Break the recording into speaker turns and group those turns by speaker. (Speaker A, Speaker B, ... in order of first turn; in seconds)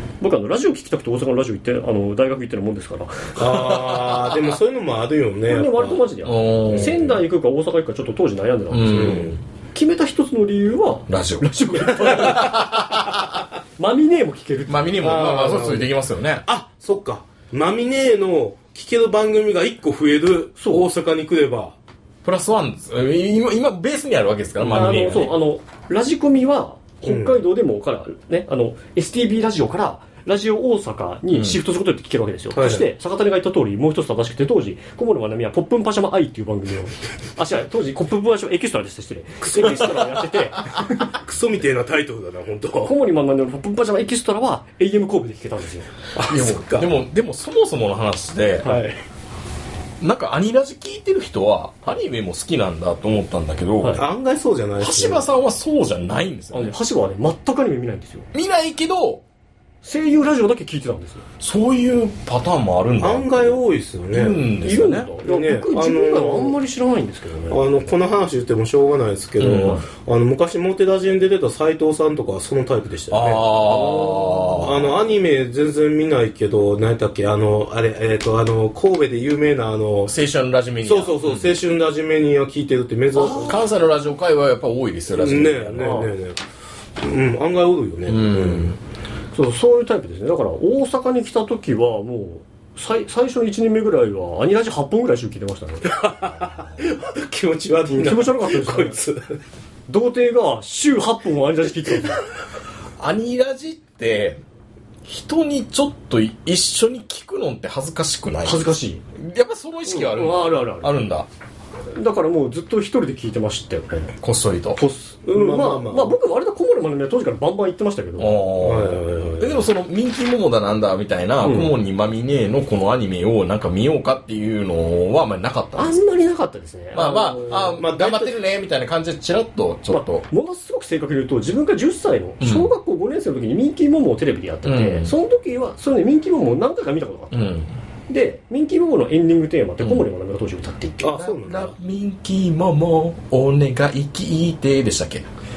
Speaker A: 0.2-3.4, 5.5-12.8, 13.8-14.9, 20.6-20.9, 24.6-41.1, 42.9-45.9, 56.5-58.3, 59.8-61.2, 64.6-67.6, 73.7-74.6, 83.2-83.6, 85.8-86.1, 89.3-96.0, 97.9-99.0, 99.9-102.2, 108.4-109.0, 109.9-111.0, 112.0-114.2, 114.8-118.4, 121.4-121.8, 125.8-127.8, 129.9-137.6, 138.1-141.2
Speaker B: 3.4-6.1, 6.7-7.1, 8.9-9.4, 15.0-15.9, 16.5-21.8, 27.1-27.4, 32.5-32.9, 41.0-43.0, 46.1-46.9, 48.6-49.0, 54.0-55.2, 63.0-64.5, 65.2-66.6, 67.5-73.9, 74.6-80.1, 80.8-83.6, 85.1-86.4, 87.0-88.8, 95.8-99.4, 115.2-116.2, 118.6-119.7, 127.5-128.4, 141.0-141.7
Speaker C: 3.4-4.4, 6.2-7.1, 8.7-9.4, 11.1-13.4, 14.7-16.4, 22.2-25.3, 31.3-31.6, 46.3-48.7, 50.0-54.0, 54.8-56.8, 58.3-59.2, 61.4-63.6, 64.1-65.1, 69.4-69.8, 73.1-74.9, 80.1-81.5, 83.2-85.9, 88.1-88.8, 103.0-104.4, 105.0-111.3, 114.2-114.8, 118.2-126.0, 126.9-130.2, 132.4-132.7, 134.7-135.1, 137.3-137.7, 141.1-145.3